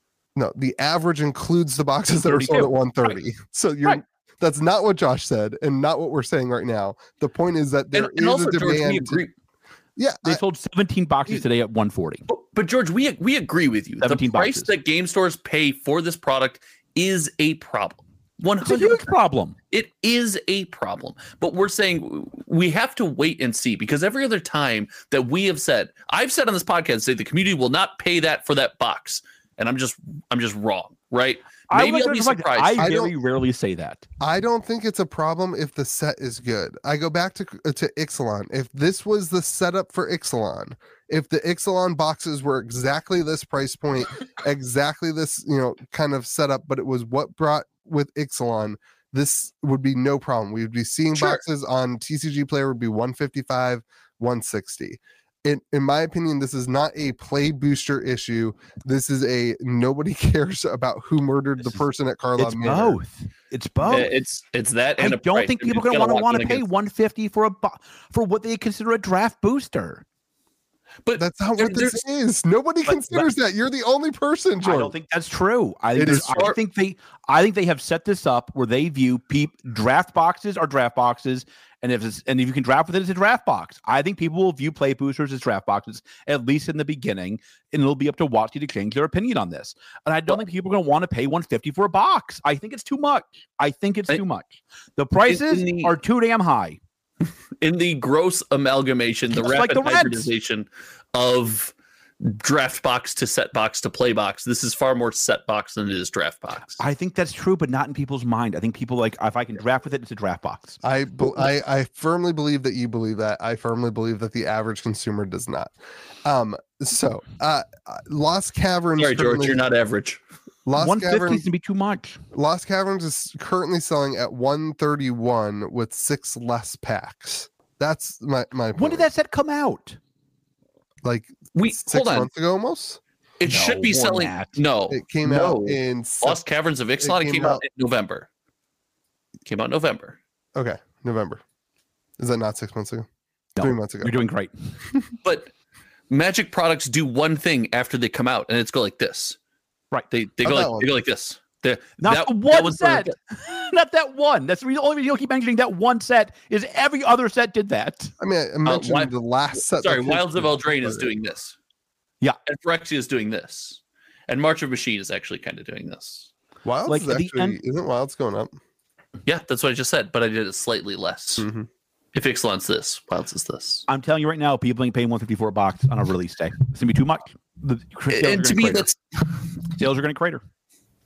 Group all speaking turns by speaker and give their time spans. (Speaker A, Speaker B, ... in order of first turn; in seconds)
Speaker A: 0.4-9.2, 10.0-10.4, 32.8-33.1, 34.2-63.0, 71.2-74.9, 76.0-76.5, 110.8-115.7, 116.2-119.6, 120.7-121.4, 122.3-129.1, 131.0-133.0, 134.9-136.4, 137.0-137.6, 140.6-141.4, 142.2-143.1, 143.6-144.2, 150.4-150.9, 158.2-161.1, 166.7-168.5, 171.4-171.7
Speaker B: 2.2-3.2, 10.2-12.2, 14.0-14.7, 18.6-19.6, 31.7-34.0, 62.4-64.1, 65.0-70.0, 74.6-96.8, 99.3-100.3, 106.8-110.8, 120.8-122.2, 128.8-130.0, 133.5-134.6, 143.6-144.7, 152.0-158.1, 166.9-167.6, 173.9-178.9, 179.7-180.4
Speaker C: 7.9-9.3, 12.3-19.1, 19.7-32.9, 63.9-66.7, 71.0-72.0, 76.1-76.6, 95.3-95.9, 97.6-106.8, 119.0-120.2, 131.6-132.3, 133.4-138.3, 139.5-140.2, 145.2-145.5, 146.1-149.4, 150.1-153.1, 158.7-161.6, 162.5-166.3, 169.3-171.5, 172.1-173.9, 178.1-179.0